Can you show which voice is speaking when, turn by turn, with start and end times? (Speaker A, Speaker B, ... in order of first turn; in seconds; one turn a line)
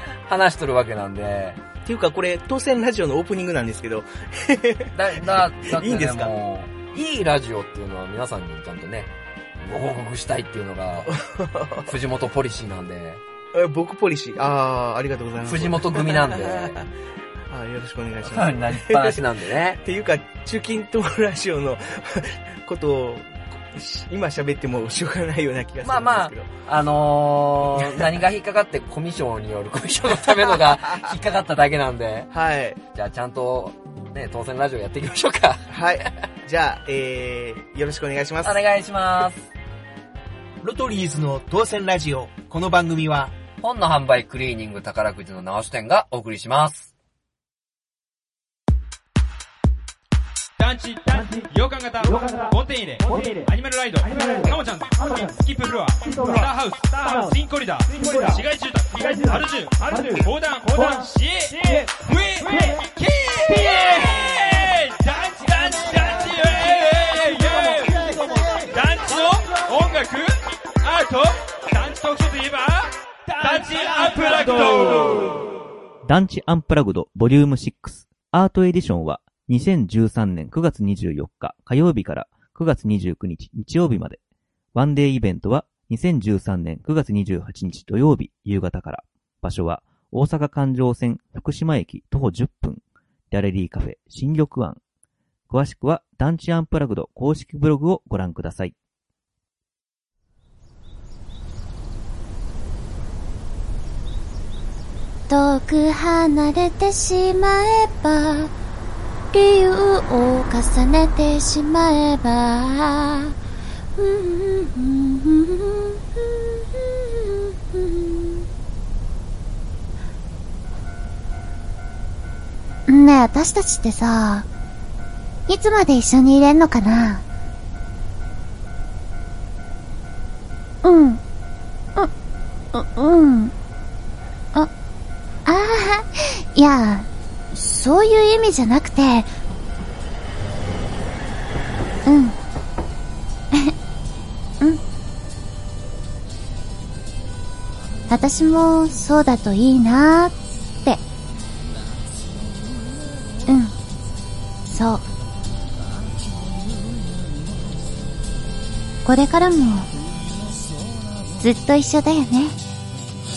Speaker A: 0.2-1.6
Speaker B: 1.8-6.3
Speaker A: 4.9-11.2
Speaker B: 11.0-11.9
Speaker A: 11.8-13.2
Speaker B: 13.5-16.9
Speaker A: 15.4-16.8
Speaker B: 17.5-26.5
Speaker A: 18.2-19.8
Speaker A: 25.8-32.3
Speaker B: 27.8-28.0
Speaker B: 30.2-31.1
Speaker B: 32.3-32.8
Speaker A: 32.9-35.7
Speaker B: 35.7-38.6
Speaker A: 38.4-39.5
Speaker B: 40.6-43.3
Speaker A: 43.6-46.9
Speaker C: 50.6-68.1
Speaker C: 68.7-75.3
Speaker D: 76.0-84.2
Speaker D: 84.7-94.8
Speaker D: 95.5-98.7
Speaker E: 105.3-108.5
Speaker E: 109.3-113.3
Speaker E: 114.0-118.5
Speaker E: 122.9-124.5
Speaker E: 125.5-127.2
Speaker E: 130.8-131.2
Speaker E: 132.7-133.5
Speaker E: 135.4-139.3
Speaker E: 142.0-142.3
Speaker E: 148.1-150.3
Speaker E: 153.5-153.7
Speaker E: 154.7-155.0
Speaker E: 159.0-159.9
Speaker E: 161.4-162.6